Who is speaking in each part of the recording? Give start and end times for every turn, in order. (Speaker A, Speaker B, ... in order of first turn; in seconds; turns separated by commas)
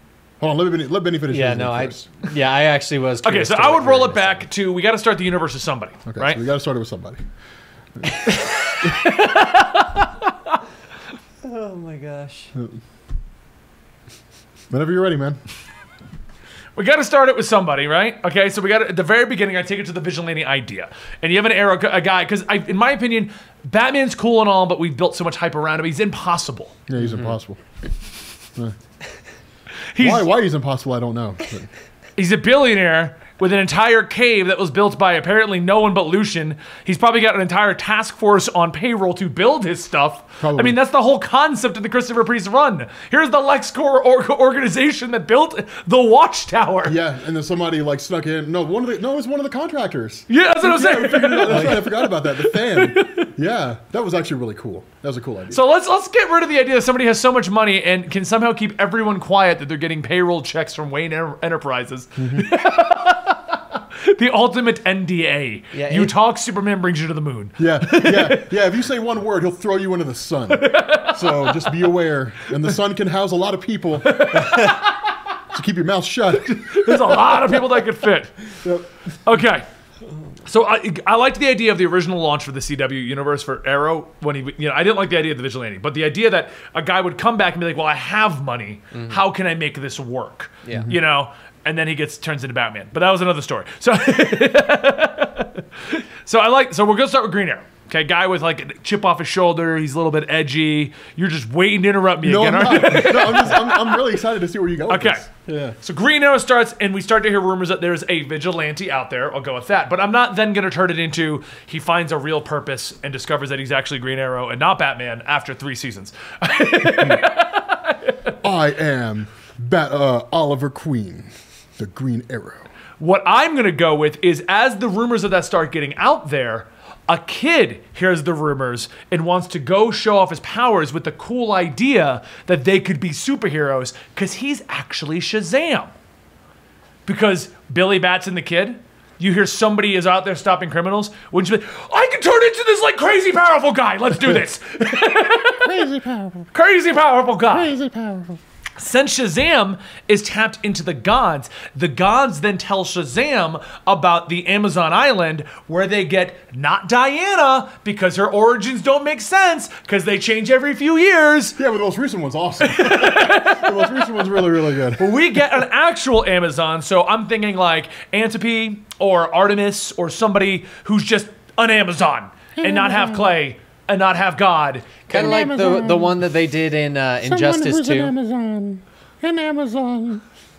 Speaker A: 0.4-2.1, Speaker B: 1.3-4.5, Speaker C: 3.2-6.4, Speaker A: 6.1-7.2, Speaker C: 8.2-10.6, Speaker A: 8.8-9.1, Speaker B: 11.4-12.5, Speaker A: 14.7-15.4, Speaker C: 16.8-26.8, Speaker A: 26.9-27.6, Speaker B: 27.0-27.3, Speaker C: 29.9-30.3, Speaker A: 30.0-31.7, Speaker C: 32.2-47.0, Speaker A: 40.4-40.8, Speaker A: 46.8-55.6, Speaker C: 50.3-53.3, Speaker C: 55.5-63.4, Speaker A: 62.2-62.5, Speaker C: 64.0-68.5, Speaker B: 65.7-66.1, Speaker A: 67.6-74.7, Speaker C: 70.5-71.9, Speaker C: 74.0-75.0, Speaker A: 75.5-77.8, Speaker C: 76.3-78.3, Speaker C: 79.2-79.7, Speaker C: 80.5-104.0, Speaker B: 88.9-89.2, Speaker B: 90.6-90.9, Speaker A: 102.2-105.8, Speaker C: 104.9-105.2, Speaker C: 105.8-118.3, Speaker A: 118.4-122.6, Speaker C: 123.0-135.9, Speaker C: 137.1-145.7, Speaker A: 145.6-146.5, Speaker C: 146.5-147.7, Speaker A: 147.5-148.4, Speaker C: 148.8-161.6, Speaker A: 161.6-165.6, Speaker C: 162.6-164.4, Speaker C: 164.9-175.0, Speaker A: 172.6-173.3, Speaker B: 175.1-178.1, Speaker A: 175.1-176.2, Speaker A: 177.2-180.2